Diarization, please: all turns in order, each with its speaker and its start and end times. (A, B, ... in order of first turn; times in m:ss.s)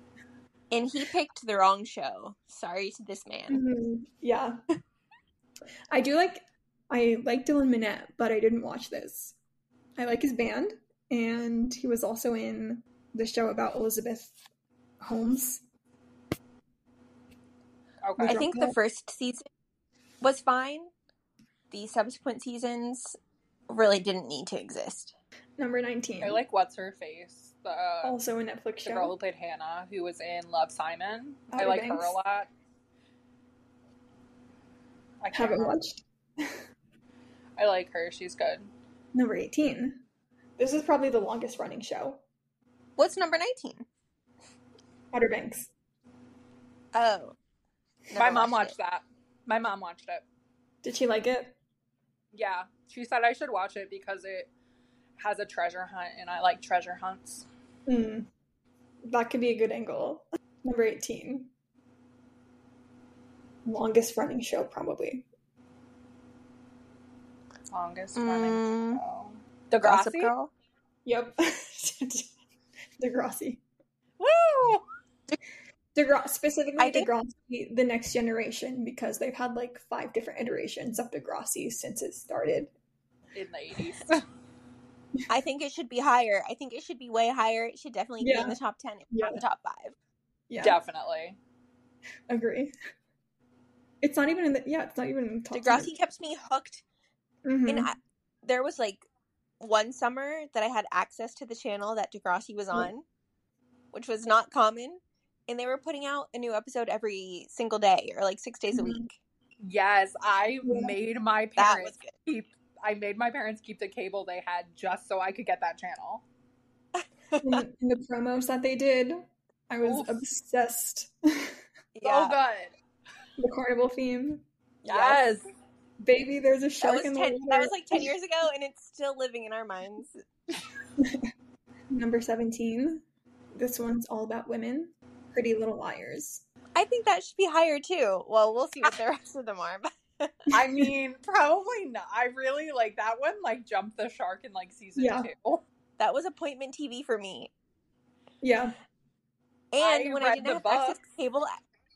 0:00.7-0:03.6 A
0:03.5-0:04.6 B
0:05.9-0:09.4 B
0:10.0-0:14.4 B
0:15.0-0:15.6 B
0:18.0-0:18.4 C
0:18.2-0:18.8 B
0:18.2-0:19.4 A
0:20.2-0:20.9 A
0:21.7-0:23.2 A
0:23.7-0:25.1 A
0:25.6-0:26.4 B
0:26.2-0:28.2 C
0:28.0-0:29.1 B
0:28.8-0:32.5 C
0:31.5-0:32.2 B
0:35.2-0:35.8 C
0:35.3-0:36.6 B
0:37.6-0:38.7 C
0:39.1-0:40.0 B
0:40.6-0:42.2 B
0:43.0-0:43.9 A
0:45.1-0:45.7 B
0:46.9-0:47.4 A
0:48.1-0:48.7 A
0:48.2-0:50.2 C
0:50.8-0:51.6 B
0:52.3-0:54.5 C
0:55.2-0:57.5 C
0:57.9-0:58.3 B
0:59.0-1:01.5 B
1:03.6-1:05.3 B
1:07.7-1:10.3 C
1:08.2-1:09.0 A
1:09.8-1:10.5 A
1:11.1-1:12.3 B
1:13.0-1:13.6 B
1:14.2-1:14.8 C
1:16.0-1:22.7 B
1:16.8-1:17.1 A
1:23.4-1:24.2 C
1:25.3-1:30.0 A
1:28.2-1:28.6 B
1:29.1-1:29.4 B
1:30.5-1:30.8 B
1:30.6-1:31.4 C
1:32.3-1:32.7 B
1:34.0-1:35.9 B
1:35.5-1:36.8 A
1:37.4-1:37.9 B
1:37.7-1:39.1 A
1:39.6-1:43.0 A
1:43.9-1:49.2 A
1:48.7-1:49.1 B
1:49.6-1:56.2 C
1:50.6-1:51.0 B
1:51.6-1:52.1 A
1:57.0-1:57.6 A
1:57.4-2:01.6 B
1:59.8-2:00.2 C
2:02.0-2:02.4 A
2:02.0-2:02.7 C
2:03.4-2:05.2 B
2:04.9-2:05.4 C
2:06.0-2:08.1 B
2:06.8-2:10.2 A
2:11.0-2:11.3 B
2:11.9-2:13.0 B
2:13.5-2:16.4 B
2:16.8-2:20.3 A
2:20.5-2:25.6 C
2:25.0-2:25.3 B
2:26.0-2:27.5 A
2:28.4-2:28.8 B
2:29.7-2:31.6 A
2:29.8-2:31.0 C